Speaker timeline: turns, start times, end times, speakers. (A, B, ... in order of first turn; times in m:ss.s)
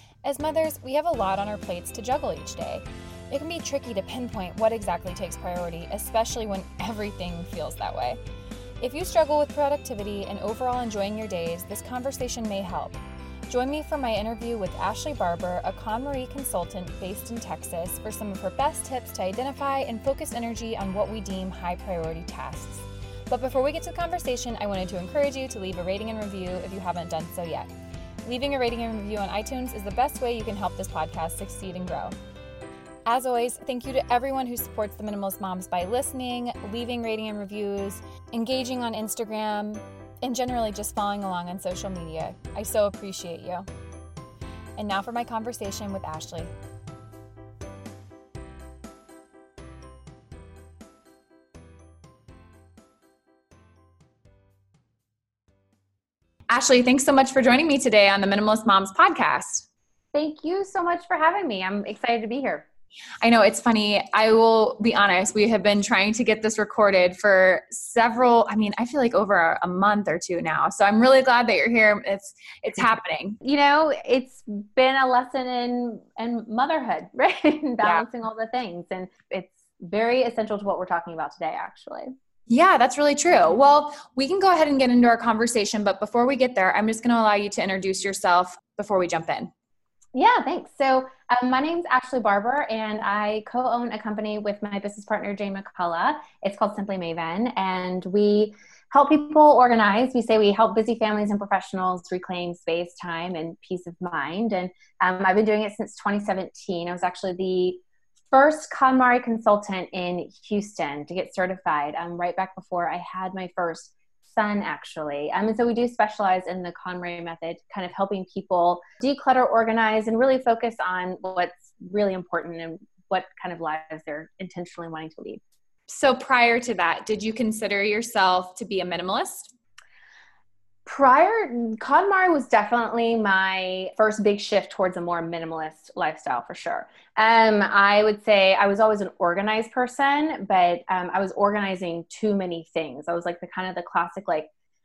0:00.2-0:08.2 A
0:08.8-0:27.7 A
0:28.2-0:32.2 A
0:33.1-0:43.7 A
0:44.8-0:46.5 A
0:56.5-0:59.7 A
1:00.1-1:02.7 B
1:03.2-1:13.4 A
1:13.4-1:22.1 B
1:22.5-1:29.5 A
1:30.1-2:05.4 B
2:05.9-2:09.5 A
2:10.9-2:24.5 B